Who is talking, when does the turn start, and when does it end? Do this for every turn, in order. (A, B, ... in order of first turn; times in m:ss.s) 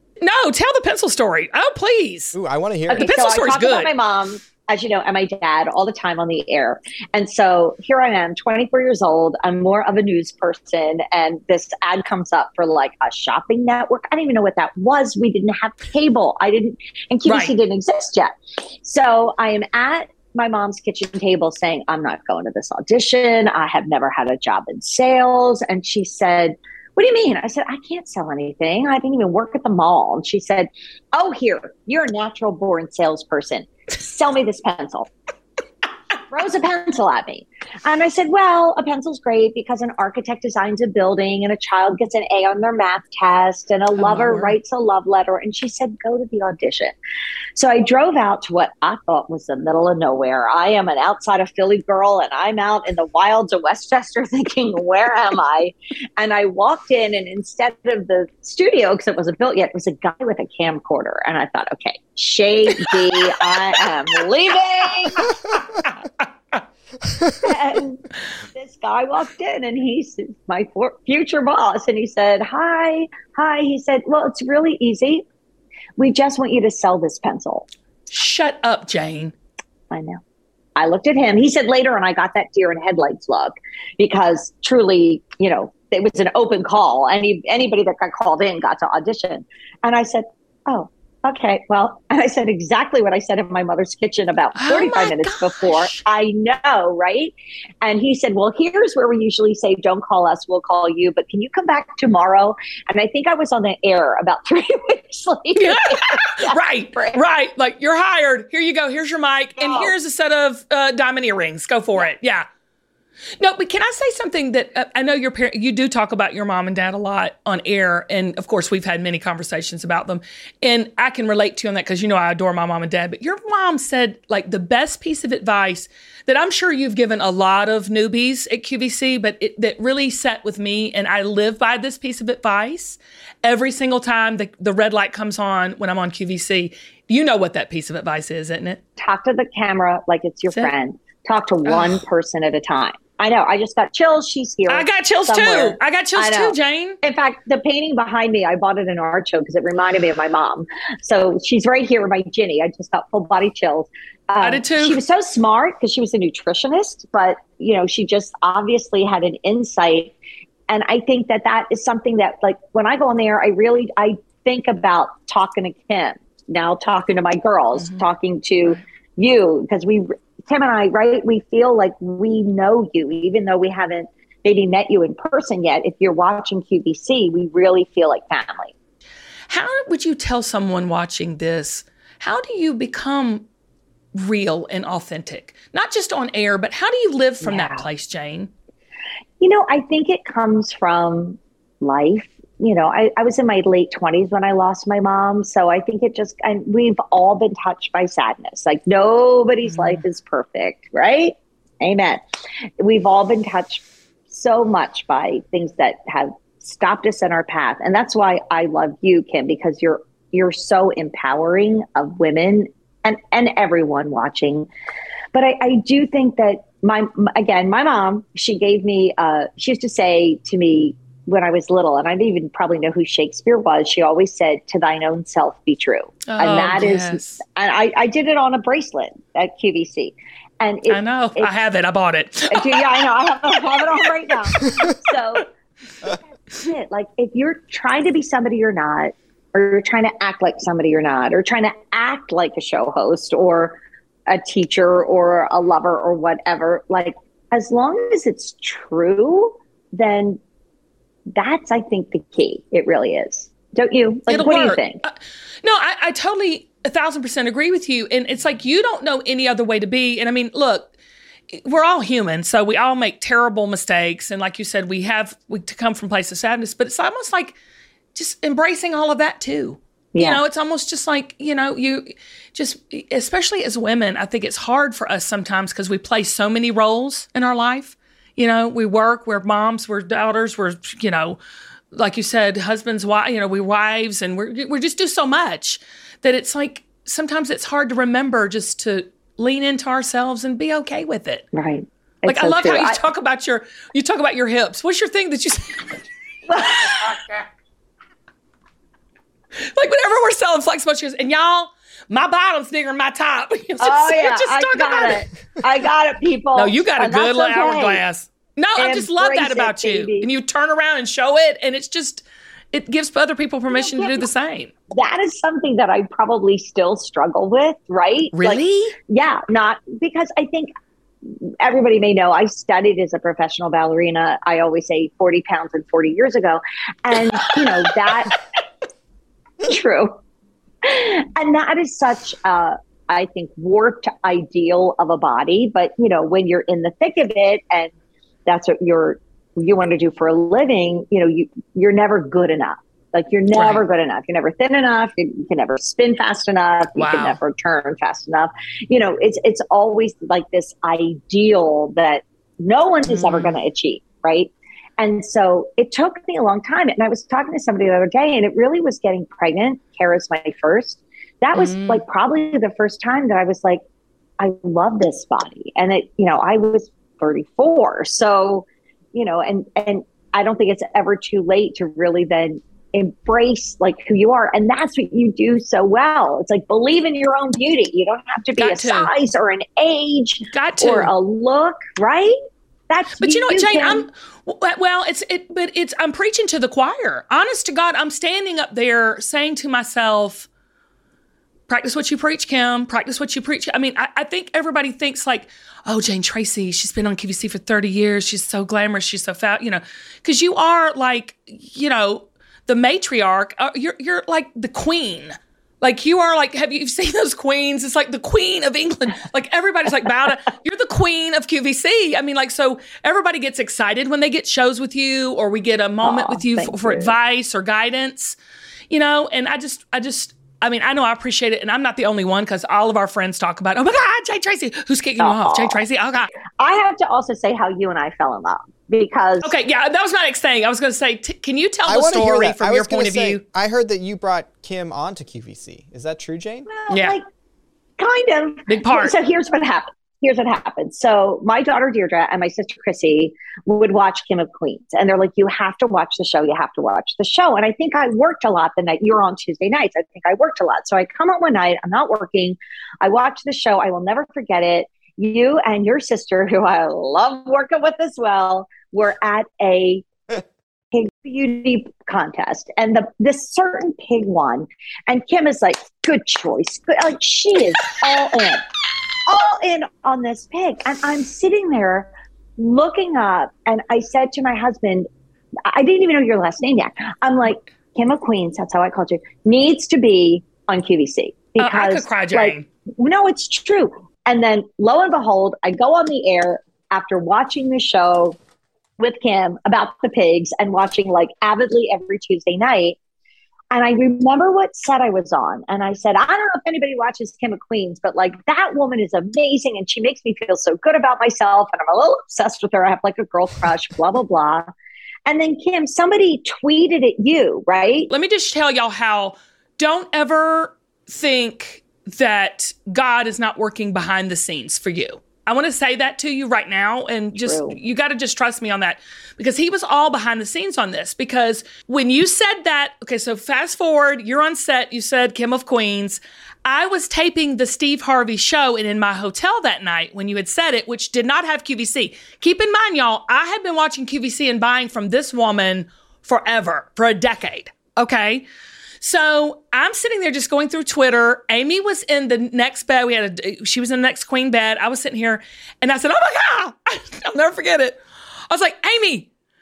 0:00.2-0:02.4 A
0:02.3-0:03.2 B
0:02.9-0:35.1 C
0:02.9-0:03.9 A
0:17.2-0:17.5 A
0:36.3-0:47.0 C
0:44.0-0:44.6 A
0:47.6-1:05.4 C
1:07.4-1:15.3 C
1:16.0-1:17.7 C
1:18.1-1:19.3 A
1:19.9-1:20.2 C
1:20.8-1:47.2 C
1:34.6-1:36.0 A
1:45.6-1:52.5 A
1:49.6-1:49.9 C
1:53.4-2:18.8 A
2:19.0-2:40.1 C
2:21.7-2:22.0 A
2:24.7-2:27.0 A
2:34.4-2:35.0 A
2:40.7-2:58.7 C
2:47.8-2:48.0 A
2:59.5-3:03.5 A
3:04.2-3:08.5 A
3:07.4-3:07.8 C
3:09.4-3:22.2 C
3:19.6-3:20.0 A
3:22.8-3:34.7 C
3:35.3-3:51.5 C
3:46.3-3:47.4 A
3:50.9-3:52.9 A
3:52.5-3:55.5 C
3:56.0-4:10.4 C
4:11.4-4:15.0 C
4:14.3-4:20.9 A
4:21.5-4:27.6 A
4:28.2-4:41.4 A
4:30.1-4:30.4 C
4:41.9-4:51.5 A
4:51.5-4:53.0 C
4:52.2-4:56.0 A
4:56.5-4:57.2 C
4:56.6-4:57.2 A
4:59.7-5:05.2 A
5:03.8-5:08.0 C
5:06.6-5:14.7 A
5:08.8-5:10.3 C
5:13.7-5:14.3 C
5:14.9-5:20.7 C
5:18.3-5:19.0 A
5:21.2-5:28.4 C
5:29.6-5:30.2 C
5:30.8-5:37.9 C
5:38.5-6:03.8 C
5:43.5-5:43.9 A
5:47.0-5:47.4 A
5:53.1-5:53.6 A
6:01.6-6:02.0 A
6:04.4-6:22.4 C
6:18.6-6:19.1 A
6:20.5-6:21.1 A
6:22.9-6:24.1 C
6:23.2-6:30.5 A
6:31.7-6:58.4 A
6:56.0-6:57.1 C
6:58.9-7:06.3 A
7:05.2-7:05.8 C
7:06.6-7:09.5 C
7:09.4-7:13.4 A
7:11.9-7:16.7 B
7:16.7-7:17.2 C
7:16.9-7:17.2 A
7:18.0-7:40.4 C
7:18.7-7:19.2 A
7:40.9-7:48.6 C
7:49.3-7:55.1 C
7:55.7-8:08.4 C
8:01.6-8:02.7 A
8:09.0-8:13.0 C
8:13.7-8:24.7 C
8:25.3-8:28.1 C
8:28.1-8:58.5 A
8:37.4-8:37.8 C
8:59.0-9:09.3 A